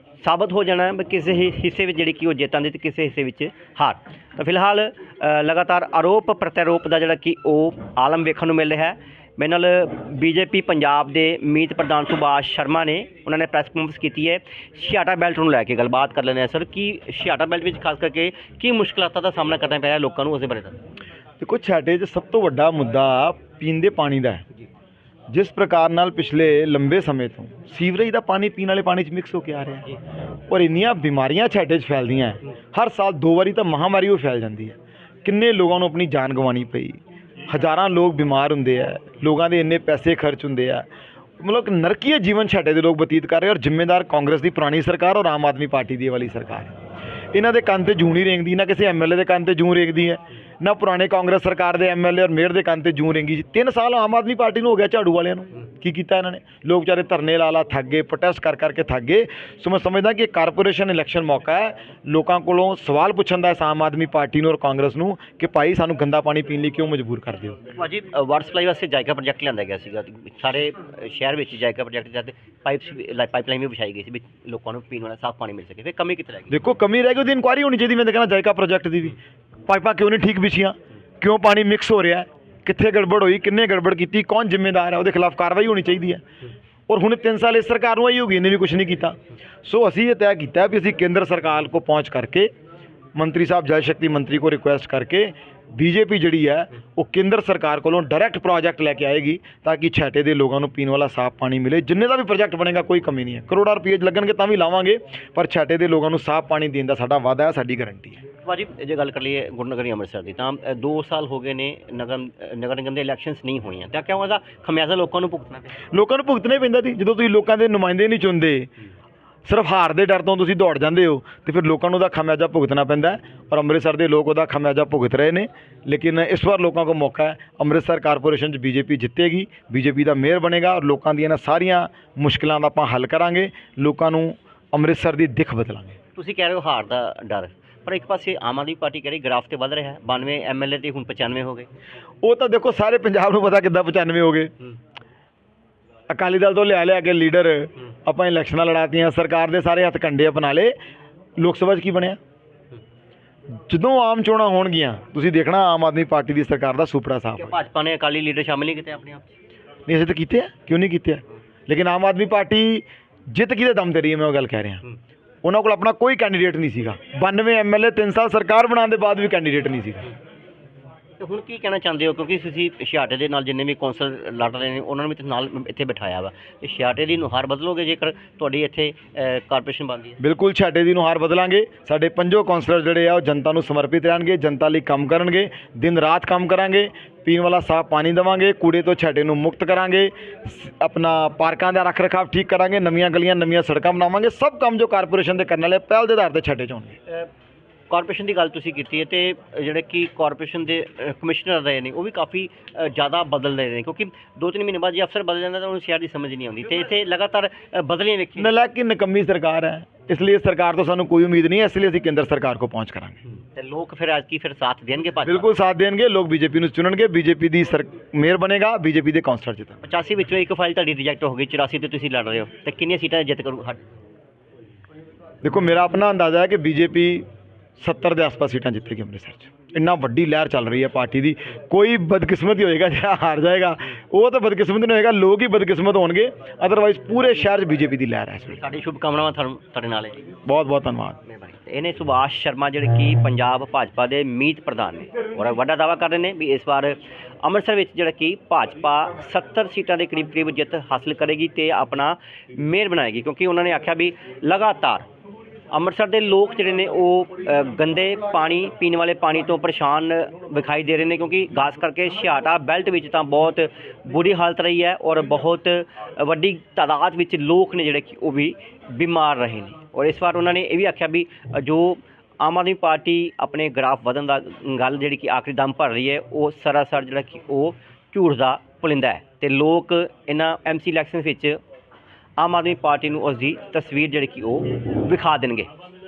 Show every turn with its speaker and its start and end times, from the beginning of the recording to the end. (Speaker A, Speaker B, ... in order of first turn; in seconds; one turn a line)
Speaker A: 0.2-20.8
Speaker B: 21.4-24.4
Speaker B: 25.3-30.0
Speaker B: 30.5-40.9
Speaker B: 41.4-46.8
Speaker B: 47.3-67.6
Speaker A: 67.8-76.6
Speaker B: 76.5-86.2
Speaker B: 86.9-92.5
Speaker B: 93.2-108.2
Speaker A: 108.4-115.8
Speaker B: 115.9-118.7
Speaker B: 119.5-136.0
Speaker A: 136.2-141.7
Speaker B: 142.2-144.5
Speaker B: 146.1-150.8
Speaker B: 151.4-152.2
Speaker B: 153.7-157.6
Speaker A: 157.3-159.3
Speaker B: 159.9-164.8
Speaker B: 165.4-170.1
Speaker A: 171.2-180.2
Speaker B: 180.2-197.0
Speaker A: 197.9-208.5
Speaker B: 208.4-213.2
Speaker A: 213.4-215.5
Speaker B: 215.2-219.8
Speaker A: 219.8-223.8
Speaker B: 225.4-227.2
Speaker B: 227.8-238.6
Speaker A: 238.5-240.3
Speaker B: 240.5-241.2
Speaker A: 241.2-255.1
Speaker A: 255.7-281.6
Speaker A: 282.4-285.7